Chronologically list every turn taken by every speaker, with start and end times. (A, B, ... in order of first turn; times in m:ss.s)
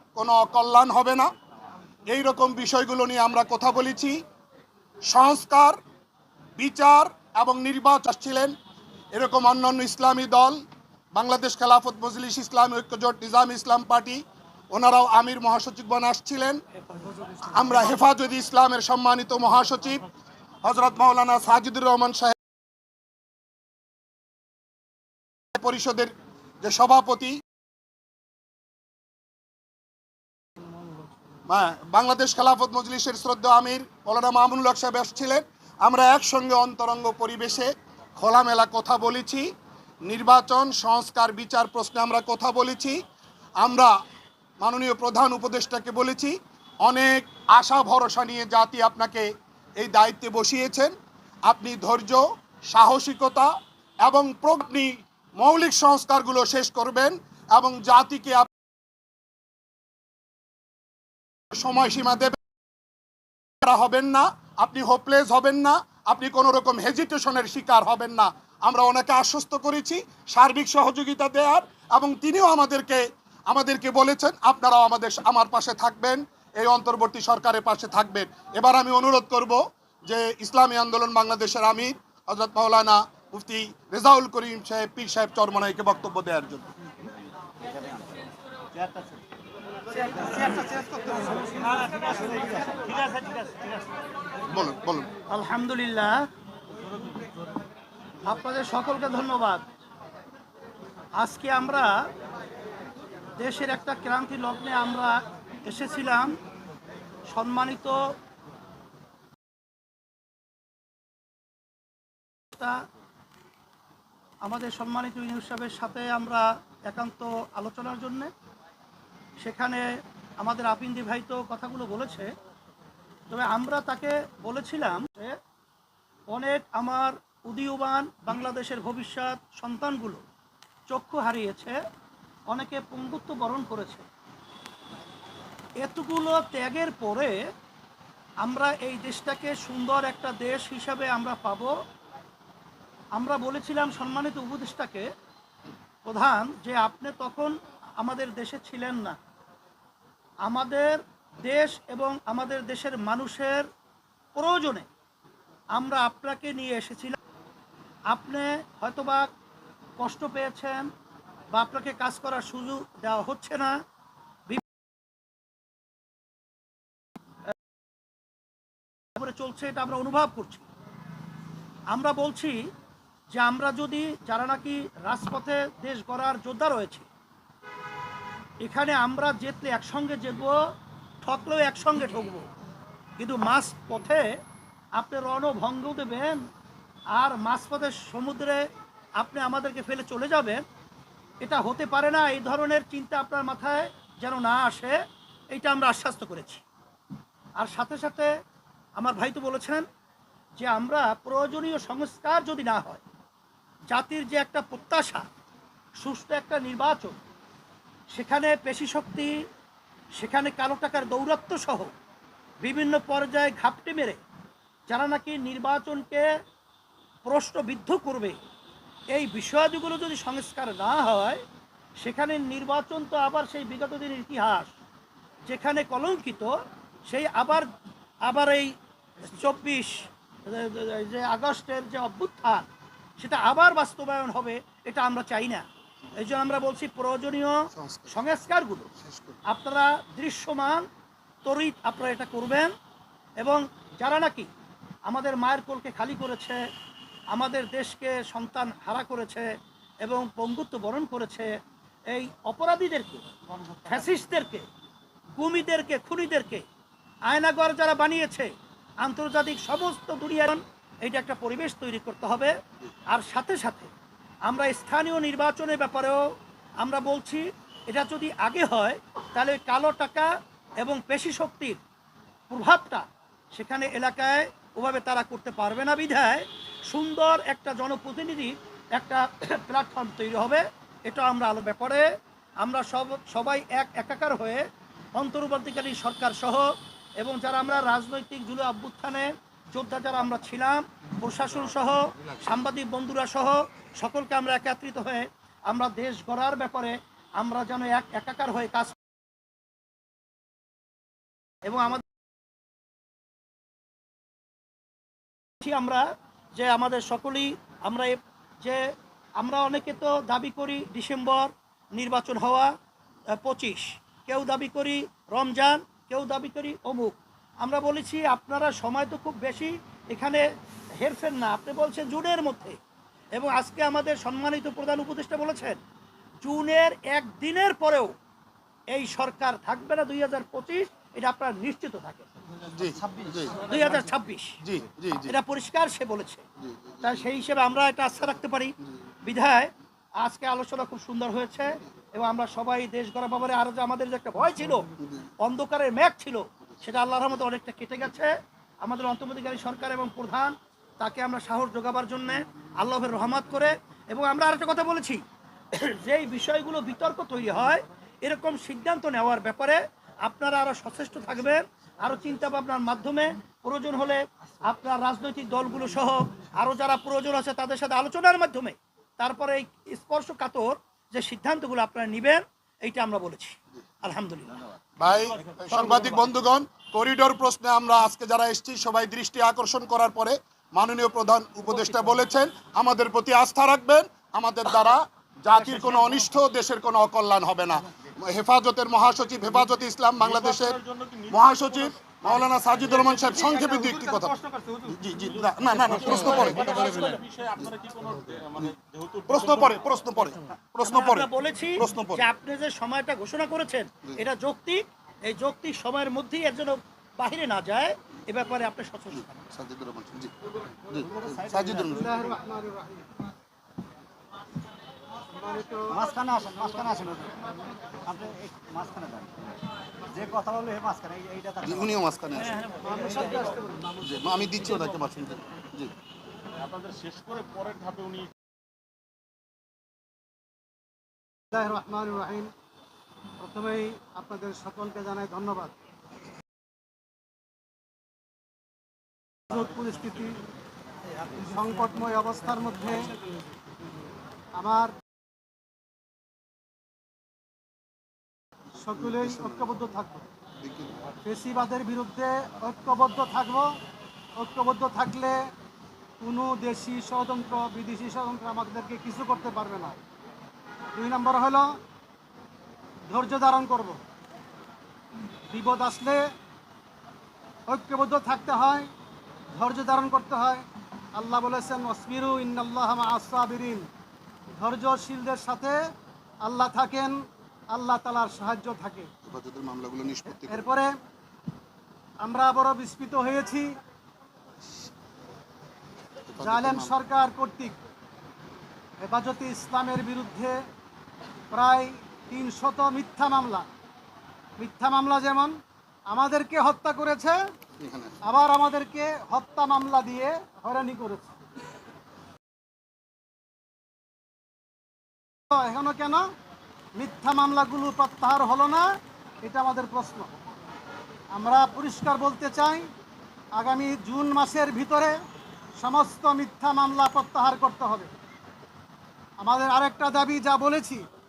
0:00.2-0:01.3 A
0:02.1-0:04.2 A
0:05.1-0:05.8 A
0:06.6-0:08.6 A
0:09.1-0:10.6 A
0:11.1-0:16.6 A
0:17.5-0:20.1 A
0:20.6-0:22.4 A
0:25.6-0:27.4 A
0:31.5-0:39.5 A
0:40.0-0:43.0 A
0:43.6-0:43.9 A
0:44.6-0:50.9 A
0:51.5-0:53.5 A
0:54.0-0:58.5 A
1:01.5-1:02.4 A
1:03.6-1:26.7 A
1:28.7-1:29.1 B
1:30.4-1:31.3 B
1:34.5-1:35.1 A
1:35.3-1:36.2 C
1:38.2-1:39.7 C
1:41.2-1:42.0 C
1:43.4-1:46.4 C
1:47.3-1:48.0 C
1:52.5-1:52.8 C
1:54.4-1:58.3 C
1:59.4-1:59.8 C
2:00.4-2:02.3 C
2:03.3-2:05.4 C
2:06.3-2:10.2 C
2:10.9-2:11.8 C
2:12.5-2:14.0 C
2:15.8-2:17.4 C
2:18.4-2:21.7 C
2:23.2-2:25.1 C
2:26.0-2:29.2 C
2:30.4-2:33.7 C
2:34.4-2:34.9 C
2:35.8-2:37.2 C
2:38.1-2:39.3 C
2:40.0-2:40.9 C
2:41.5-2:43.8 C
2:49.2-2:50.6 C
2:51.9-2:52.7 C
2:53.3-2:57.1 C
2:58.6-3:00.6 C
3:01.2-3:02.4 C
3:03.2-3:04.3 C
3:05.0-3:06.4 C
3:07.1-3:08.7 C
3:09.2-3:10.6 C
3:11.4-3:15.0 C
3:15.5-3:16.6 C
3:17.6-3:18.3 C
3:19.0-3:19.8 C
3:20.6-3:23.0 C
3:23.9-3:25.2 C
3:26.0-3:27.2 C
3:28.1-3:29.3 C
3:30.2-3:31.9 C
3:32.6-3:34.2 C
3:34.9-3:36.3 C
3:37.2-3:38.4 C
3:39.1-3:41.4 C
3:42.0-3:44.7 C
3:45.5-3:46.5 C
3:47.1-3:47.7 C
3:48.2-3:52.7 C
3:53.2-3:58.9 C
3:59.5-4:00.9 C
4:01.4-4:02.7 C
4:03.4-4:04.5 C
4:05.1-4:06.6 C
4:07.3-4:09.5 C
4:10.0-4:11.5 C
4:12.1-4:14.6 C
4:15.4-4:16.6 C
4:17.3-4:18.5 C
4:19.0-4:22.5 C
4:23.1-4:23.9 C
4:24.5-4:26.2 C
4:26.8-4:31.8 C
4:32.5-4:42.1 C
4:42.6-4:59.0 C
5:01.6-5:02.1 C
5:05.6-5:12.7 C
5:13.4-5:20.4 C
5:21.0-5:22.8 C
5:23.3-5:25.8 C
5:26.4-5:28.1 C
5:28.9-5:32.3 C
5:32.7-5:33.5 A
5:33.0-5:33.5 B
5:33.6-5:34.6 C
5:34.6-5:35.3 A
5:35.3-5:36.4 C
5:37.0-5:38.7 C
5:39.2-5:44.9 C
5:45.4-5:55.2 C
5:55.7-6:14.6 C
6:15.0-6:30.8 A
6:15.7-6:16.2 C
6:30.2-6:31.9 D
6:31.3-6:37.0 A
6:35.4-6:39.8 D
6:39.3-6:42.2 A
6:40.8-6:49.4 C
6:49.6-6:50.3 A
6:50.9-6:52.1 B
6:51.0-6:52.1 A
6:51.9-6:53.0 E
6:55.4-6:56.1 E
6:55.9-7:02.5 B
7:01.7-7:02.5 A
7:02.8-7:03.7 E
7:04.0-7:05.9 A
7:06.7-7:08.3 D
7:11.5-7:12.5 E
7:13.4-7:15.7 E
7:19.5-7:20.4 E
7:21.4-7:23.1 E
7:24.6-7:24.9 E
7:28.8-7:30.3 E
7:31.2-7:33.7 E
7:34.4-7:35.4 E
7:36.2-7:40.0 E
7:41.0-7:41.7 E
7:43.1-7:44.0 E
7:45.5-7:46.2 E
7:47.7-7:48.9 E
7:49.5-7:50.6 E
7:51.2-7:53.9 E
7:54.6-7:55.8 E
7:56.4-7:57.2 E
7:57.7-7:59.1 E
7:59.3-8:00.6 A
8:00.3-8:00.9 E
8:02.2-8:03.7 E
8:06.4-8:07.8 E
8:06.6-8:06.8 A
8:09.0-8:10.6 E
8:11.5-8:13.7 E
8:14.6-8:15.5 E
8:16.1-8:17.4 E
8:18.2-8:21.3 E
8:25.5-8:26.2 E
8:27.0-8:28.9 E
8:29.4-8:30.3 E
8:31.3-8:32.9 E
8:33.6-8:35.2 E
8:35.8-8:38.1 E
8:39.4-8:41.0 E